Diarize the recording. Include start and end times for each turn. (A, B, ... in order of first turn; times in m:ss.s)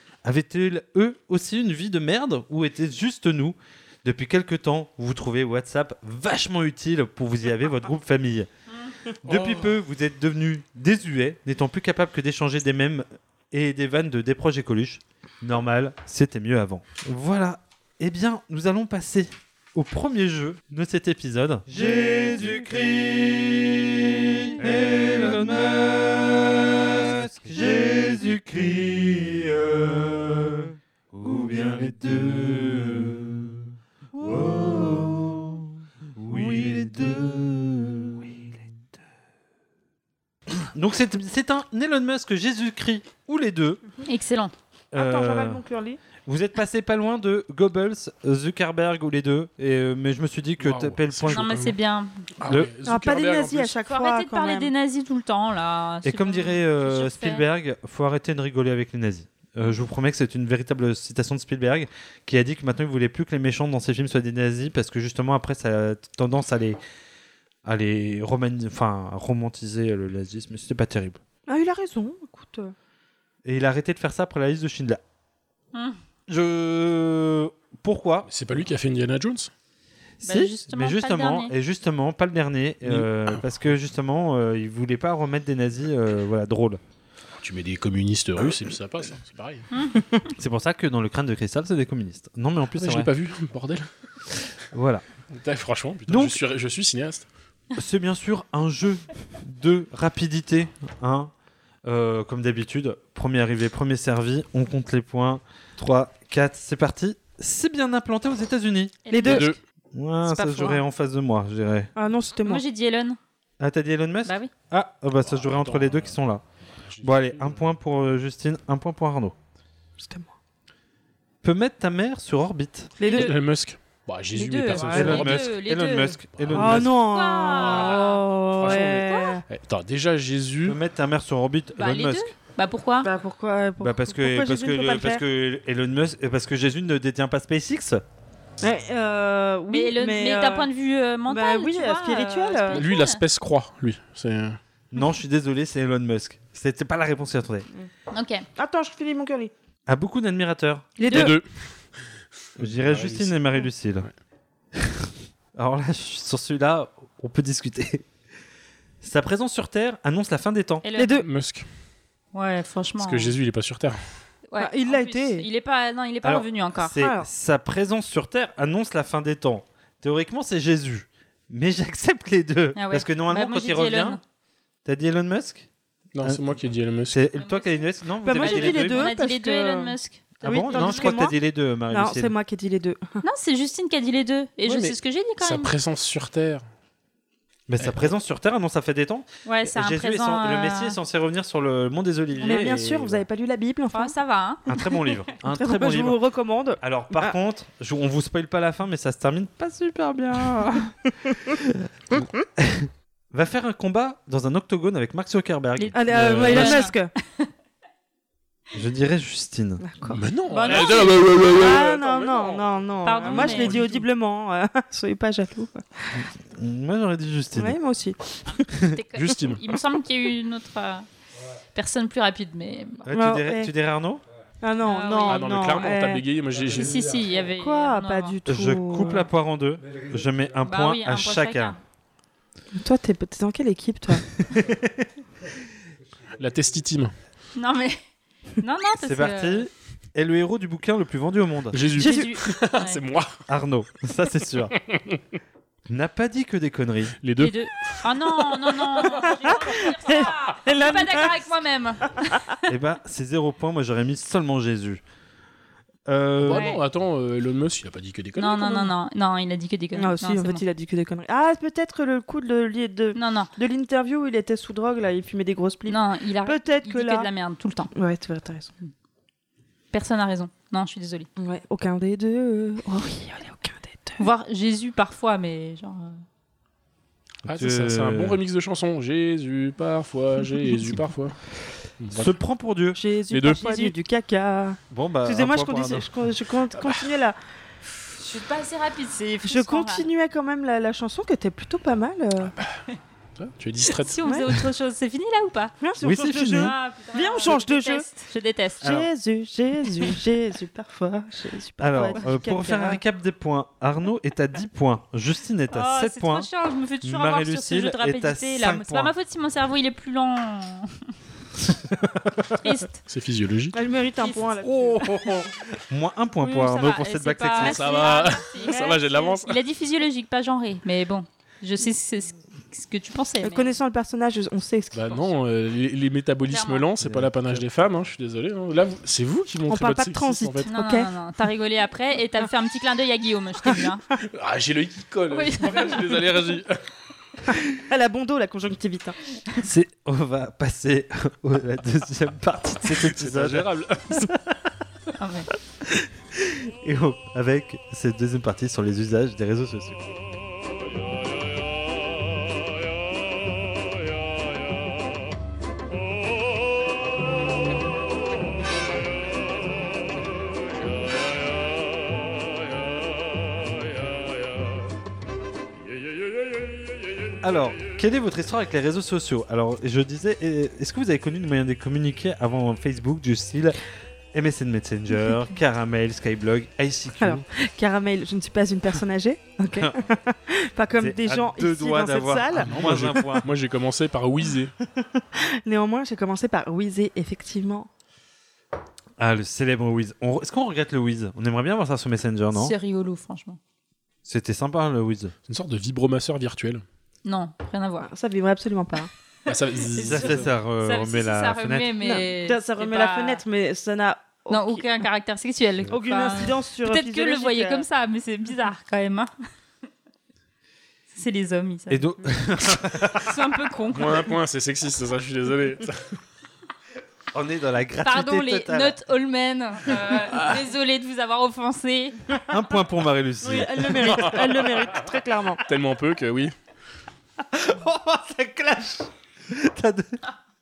0:00.2-0:08.5 A
0:09.2-0:38.7 A
0:09.3-0:09.6 B
0:40.5-0:43.8 A
0:44.0-0:44.5 C
0:44.9-0:45.6 A
0:44.9-0:46.0 D
0:46.2-0:51.6 A
0:50.6-0:51.7 B
0:51.3-0:52.2 C
0:52.4-0:53.7 B
0:52.4-0:52.7 A
0:52.8-0:54.7 D
0:53.8-0:57.4 C
0:56.0-1:06.8 A
1:07.6-1:11.2 A
1:11.5-1:12.7 D
1:13.4-1:15.0 A
1:16.3-1:18.3 A
1:18.3-1:19.5 B
1:20.2-1:26.8 A
1:20.2-1:21.5 C
1:22.8-1:23.4 B
1:27.4-1:29.7 B
1:29.7-1:30.0 C
1:30.4-1:33.1 A
1:32.7-1:33.9 B
1:34.7-1:35.0 A
1:35.3-1:37.2 B
1:36.1-1:36.4 A
1:37.8-1:41.3 A
1:41.8-1:49.1 A
1:49.1-1:49.4 C
1:49.1-1:49.5 D
1:49.2-1:49.6 B
1:49.9-1:51.9 A
1:50.2-1:50.8 D
1:52.0-1:52.6 D
1:52.4-1:53.2 C
1:53.6-1:56.4 A
1:54.2-1:54.5 C
1:55.2-1:56.1 B
1:56.8-1:57.6 B
1:57.0-1:59.3 A
2:00.0-2:00.3 D
2:01.4-2:02.9 A
2:03.0-2:03.3 D
2:03.0-2:03.4 C
2:03.1-2:05.4 B
2:04.3-2:06.2 C
2:04.8-2:05.2 D
2:04.9-2:06.9 A
2:06.3-2:06.8 B
2:06.5-2:09.4 D
2:06.7-2:09.4 C
2:07.6-2:08.0 B
2:08.6-2:10.8 B
2:10.6-2:12.3 A
2:11.8-2:13.1 C
2:13.0-2:15.2 D
2:13.8-2:18.0 A
2:18.6-2:20.7 D
2:19.7-2:23.2 C
2:21.3-2:22.8 D
2:22.7-2:24.6 B
2:24.9-2:27.7 A
2:28.1-2:28.4 C
2:28.6-2:29.5 D
2:29.9-2:30.9 A
2:31.0-2:31.4 D
2:31.0-2:31.3 C
2:31.1-2:31.5 B
2:32.6-2:34.1 A
2:32.6-2:34.1 B
2:34.7-2:38.0 A
2:39.0-2:40.8 A
2:40.8-2:41.2 C
2:41.0-2:41.2 D
2:41.2-2:41.7 B
2:42.3-2:43.3 C
2:43.0-2:44.0 B
2:44.5-2:46.9 C
2:44.6-2:45.5 D
2:46.2-2:54.2 A
2:47.0-2:47.3 D
2:52.8-2:54.2 C
2:54.8-2:55.7 A
2:56.1-2:57.2 B
2:57.1-2:59.1 A
2:57.4-3:01.3 C
2:58.2-3:01.4 D
3:00.4-3:02.3 A
3:01.9-3:03.2 D
3:03.2-3:05.7 C
3:04.6-3:06.6 B
3:07.7-3:13.1 A
3:07.8-3:08.1 B
3:09.4-3:11.0 C
3:12.4-3:14.1 D
3:13.9-3:14.7 C
3:14.7-3:16.2 A
3:15.5-3:17.3 D
3:16.8-3:20.9 A
3:21.5-3:26.8 A
3:25.8-3:27.5 C
3:25.9-3:27.1 D
3:26.1-3:26.7 B
3:28.7-3:29.8 A
3:29.8-3:30.2 D
3:30.1-3:32.7 B
3:30.5-3:31.2 C
3:31.4-3:36.3 D
3:33.0-3:33.8 C
3:33.2-3:33.9 B
3:36.2-3:37.8 A
3:37.5-3:38.7 D
3:38.5-3:41.0 C
3:39.2-3:39.6 B
3:41.7-3:43.1 C
3:43.0-3:44.2 A
3:43.1-3:43.7 D
3:44.6-3:46.2 D
3:44.8-3:45.5 C
3:45.3-3:47.0 B
3:46.7-3:48.3 C
3:47.5-3:49.3 D
3:48.5-3:51.8 A
3:50.6-3:51.8 C
3:52.7-3:54.2 D
3:54.5-3:55.1 A
3:56.4-3:57.1 B
3:57.6-3:58.0 C
3:58.6-3:59.7 C
3:59.0-4:01.8 A
4:01.7-4:03.4 B
4:02.0-4:03.0 C
4:03.5-4:04.7 A
4:04.9-4:05.2 B
4:05.9-4:07.2 A
4:07.2-4:07.9 B
4:07.4-4:12.5 C
4:09.1-4:11.4 D
4:12.7-4:15.0 A
4:16.1-4:16.7 A
4:16.4-4:18.9 B
4:16.5-4:16.8 C
4:18.4-4:20.6 C
4:19.9-4:27.3 D
4:23.1-4:23.5 C
4:25.9-4:27.9 C
4:27.9-4:28.8 D
4:29.9-4:31.3 C
4:31.4-4:34.2 D
4:34.2-4:36.2 C
4:37.4-4:41.4 B
4:37.5-4:38.4 A
4:42.0-4:42.3 B
4:42.1-4:43.0 A
4:43.0-4:47.4 D
4:43.3-4:43.9 B
4:44.9-4:46.1 A
4:46.8-4:47.0 B
4:48.2-4:50.0 C
4:49.4-4:52.5 D
4:53.4-4:54.2 B
4:54.0-4:55.7 C
4:54.2-4:54.5 D
4:55.8-4:58.0 D
4:56.0-4:56.7 A
4:56.4-4:58.9 C
4:58.8-4:59.1 A
4:58.8-5:03.0 D
5:01.8-5:06.5 A
5:05.7-5:11.1 C
5:07.0-5:09.1 A
5:11.9-5:12.4 A
5:12.6-5:13.0 C
5:13.1-5:13.8 B
5:13.7-5:15.2 D
5:14.8-5:15.4 B
5:15.9-5:18.2 A
5:16.4-5:23.7 C
5:17.5-5:19.6 B
5:23.4-5:25.2 D
5:24.9-5:30.7 B
5:26.5-5:26.8 C
5:27.0-5:27.6 A
5:29.7-5:31.1 D
5:30.7-5:34.0 C
5:34.3-5:36.8 B
5:35.3-5:36.0 C
5:37.7-5:39.2 D
5:39.6-5:44.6 A
5:42.9-5:44.3 B
5:45.2-5:45.5 C
5:45.8-5:50.1 A
6:07.4-6:13.8 A
6:14.3-6:17.4 A
6:17.2-6:22.7 D
6:21.0-6:23.5 A
6:22.6-6:24.7 B
6:25.2-6:27.9 D
6:29.2-6:32.7 A
6:32.5-6:33.6 C
6:34.2-6:35.3 A
6:35.5-6:36.8 B
6:37.2-6:38.1 C
6:38.0-6:39.1 D
6:39.5-6:40.5 B
6:40.0-6:43.4 C
6:40.0-6:42.0 A
6:42.0-6:44.8 D
6:44.5-6:49.3 C
6:45.9-6:47.8 D
6:51.1-6:52.0 C
6:51.9-6:53.3 A
6:53.2-6:54.3 C
6:53.9-6:56.2 B
6:57.3-6:59.0 A
6:58.0-7:02.2 C
7:02.5-7:04.3 A
7:03.4-7:05.6 D
7:04.0-7:04.8 B
7:05.6-7:06.5 B
7:07.5-7:10.2 A